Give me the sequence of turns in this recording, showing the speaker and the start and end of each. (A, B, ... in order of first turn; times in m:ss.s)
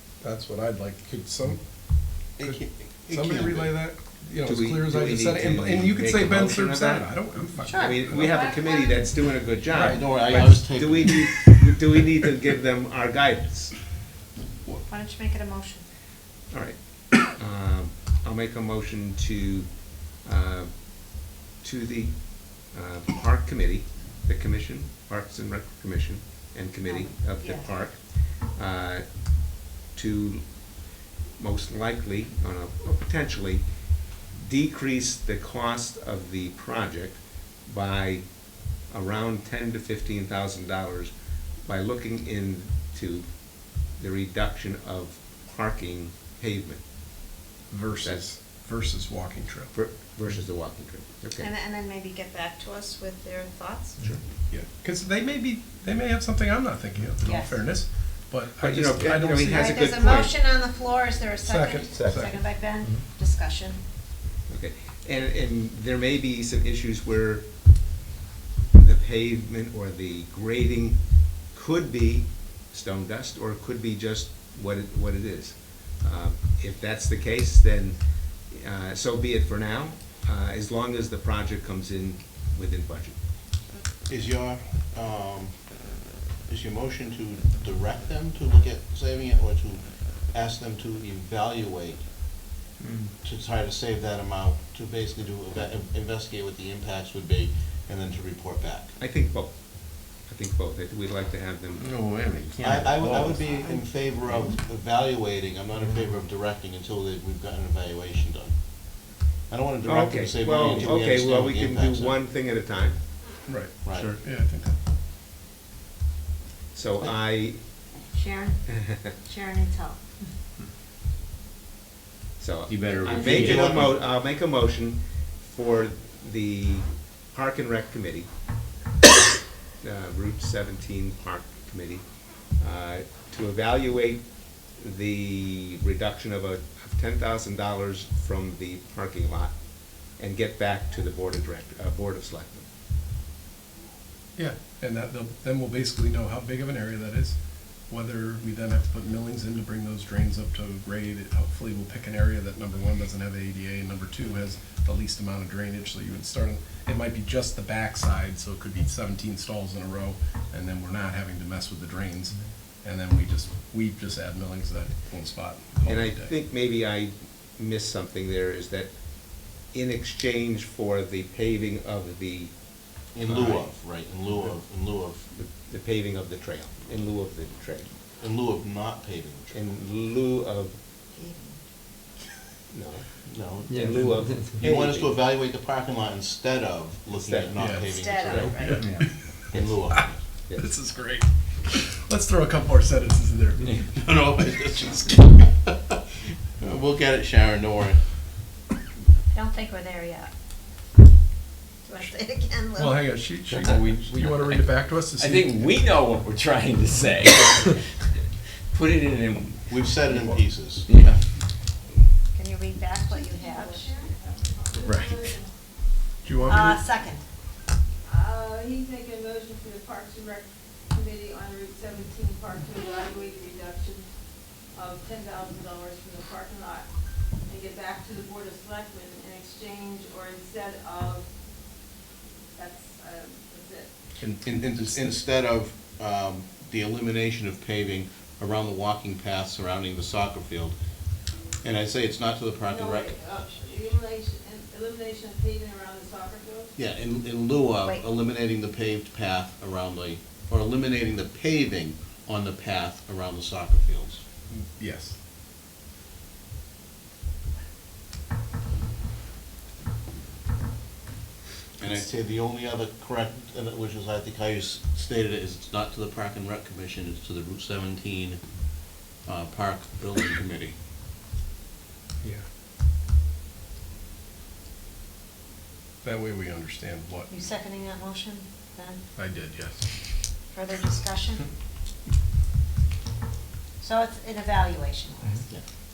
0:00.2-0:08.3 A
0:02.4-0:03.8 B
0:04.4-0:07.1 C
0:07.7-0:09.1 D
0:07.8-0:13.8 C
0:09.7-0:10.4 A
0:09.7-0:11.2 B
0:14.9-0:15.8 D
0:16.5-0:21.0 C
0:21.6-0:29.2 C
0:26.8-0:27.8 D
0:29.9-0:30.7 C
0:31.4-0:33.6 C
0:34.3-0:38.3 C
0:38.9-0:41.1 C
0:41.6-0:46.8 C
0:47.7-0:49.7 A
0:49.7-0:51.5 C
0:51.4-0:54.0 D
0:54.5-0:59.9 A
0:57.2-0:57.6 D
0:58.6-1:00.3 C
0:59.5-1:03.8 D
1:01.4-1:02.4 A
1:04.5-1:07.4 C
1:08.7-1:23.2 C
1:24.1-1:25.8 B
1:26.5-1:32.0 B
1:32.8-1:33.1 E
1:33.2-1:38.9 B
1:39.0-1:41.8 C
1:41.8-1:44.5 E
1:42.6-1:52.2 B
1:49.8-1:53.0 C
1:53.4-1:54.8 A
1:53.8-1:54.1 B
1:53.9-1:54.2 C
1:56.7-1:57.9 C
1:58.1-2:00.0 D
2:02.4-2:08.3 C
2:02.7-2:03.7 E
2:03.3-2:03.9 B
2:09.8-2:12.0 C
2:12.6-2:14.2 C
2:14.8-2:19.5 C
2:20.1-2:22.6 C
2:24.4-2:46.3 A
2:45.8-2:52.5 C
2:53.1-2:55.3 B
2:53.2-2:53.7 C
2:55.3-2:57.9 C
2:58.2-2:59.6 B
2:59.5-3:00.8 C
3:01.1-3:01.6 D
3:02.7-3:03.1 C
3:03.3-3:04.0 B
3:03.7-3:05.1 C
3:03.7-3:04.6 E
3:04.5-3:08.8 B
3:07.1-3:07.6 C
3:07.6-3:07.9 A
3:07.8-3:08.9 D
3:08.3-3:08.6 C
3:08.7-3:09.0 E
3:08.8-3:10.0 A
3:09.5-3:10.2 B
3:10.5-3:13.8 A
3:13.9-3:15.7 B
3:16.6-3:18.0 B
3:19.3-3:20.3 D
3:21.8-3:23.0 D
3:22.7-3:25.8 A
3:23.7-3:24.2 E
3:25.2-3:27.8 E
3:28.7-3:30.2 E
3:29.7-3:31.2 B
3:30.8-3:31.2 E
3:32.3-3:34.1 D
3:33.1-3:35.5 F
3:34.8-3:35.3 A
3:36.2-3:36.8 A
3:36.5-3:37.2 D
3:38.0-3:44.1 F
3:44.7-3:46.9 F
3:47.4-3:51.3 F
3:52.5-3:53.9 F
3:54.2-3:55.2 A
3:54.4-4:00.8 B
4:01.6-4:03.2 B
4:02.7-4:06.7 F
4:06.8-4:14.2 B
4:14.5-4:15.2 A
4:21.8-4:28.4 B
4:29.2-4:30.8 B
4:36.0-4:37.3 A
4:37.3-4:39.0 D
4:39.2-4:39.9 A
4:40.5-4:41.5 D
4:43.8-4:45.5 D